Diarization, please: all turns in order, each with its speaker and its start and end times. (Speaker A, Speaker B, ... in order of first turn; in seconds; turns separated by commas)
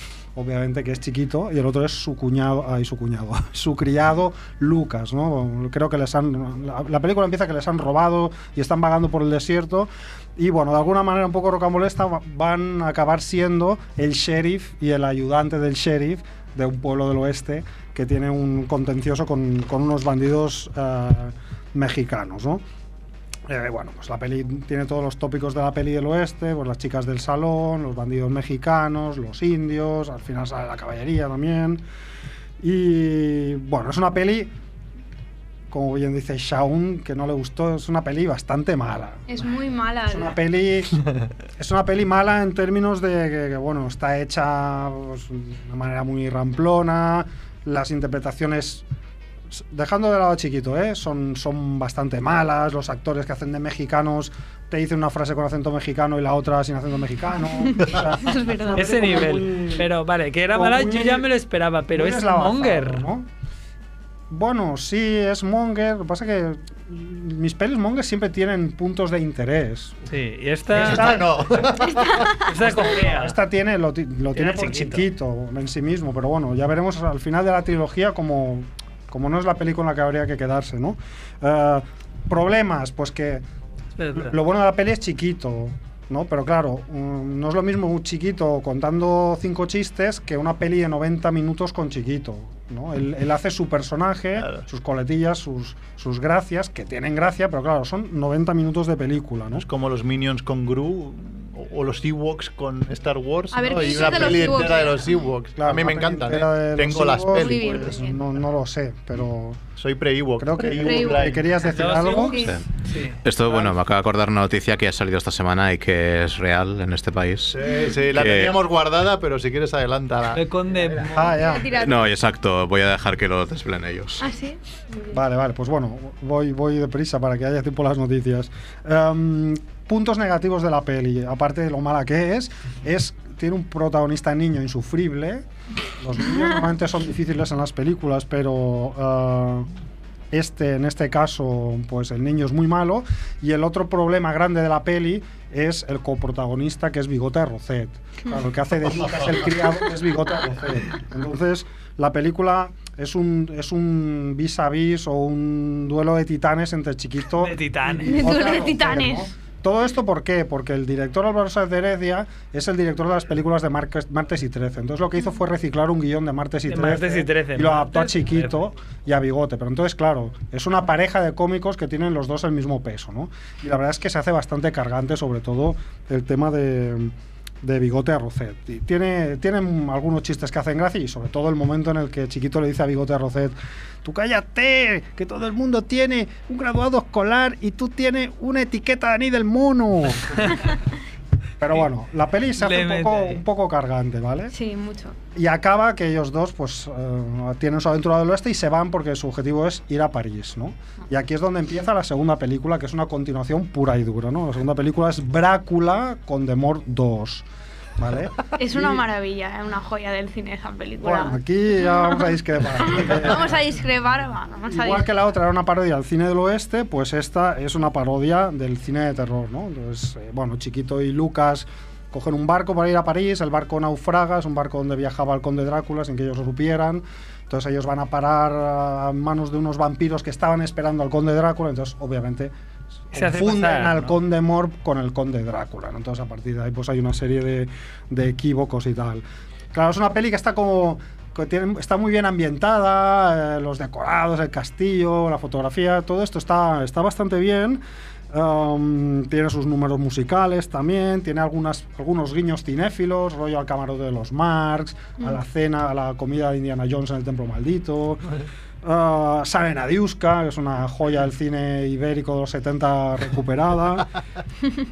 Speaker A: 0.3-22.6, Speaker A: 23.5-31.8, Speaker A: 32.6-34.5, Speaker A: 35.7-39.3, Speaker B: 39.3-40.4, Speaker A: 40.1-41.0, Speaker A: 41.6-48.8, Speaker A: 49.5-59.9, Speaker B: 57.6-59.2, Speaker C: 58.7-63.0, Speaker A: 60.5-61.3, Speaker A: 61.9-63.3, Speaker A: 64.3-70.0, Speaker C: 70.1-71.1, Speaker A: 70.7-71.9, Speaker D: 70.7-72.3, Speaker C: 72.4-73.4, Speaker A: 72.5-83.4, Speaker C: 74.3-75.1, Speaker C: 84.0-84.4, Speaker A: 84.1-99.7, Speaker D: 94.4-94.6, Speaker D: 99.5-108.1, Speaker B: 103.5-105.2, Speaker A: 103.9-104.5, Speaker A: 105.6-109.6, Speaker B: 107.3-108.2, Speaker D: 109.8-112.0, Speaker A: 110.4-112.5, Speaker B: 110.8-111.3, Speaker C: 111.6-113.2, Speaker B: 112.1-112.6, Speaker E: 113.2-117.6, Speaker D: 117.5-120.4, Speaker B: 117.7-118.0, Speaker E: 118.1-118.6, Speaker C: 120.3-121.5, Speaker A: 121.1-121.7, Speaker B: 121.3-122.0, Speaker E: 121.7-124.2, Speaker B: 124.2-125.2, Speaker A: 125.1-135.4, Speaker A: 136.0-139.7, Speaker A: 140.3-190.5, Speaker C: 157.4-158.5, Speaker B: 158.1-159.3, Speaker C: 166.7-168.5, Speaker A: 191.6-194.6, Speaker C: 192.6-193.4, Speaker B: 194.5-195.2, Speaker A: 195.3-207.4, Speaker A: 208.0-209.0, Speaker B: 208.6-211.4, Speaker A: 211.0-213.5, Speaker B: 211.9-212.2, Speaker B: 212.9-215.1, Speaker A: 214.7-232.5, Speaker A: 233.1-258.2, Speaker C: 233.1-234.2, Speaker A: 258.8-264.1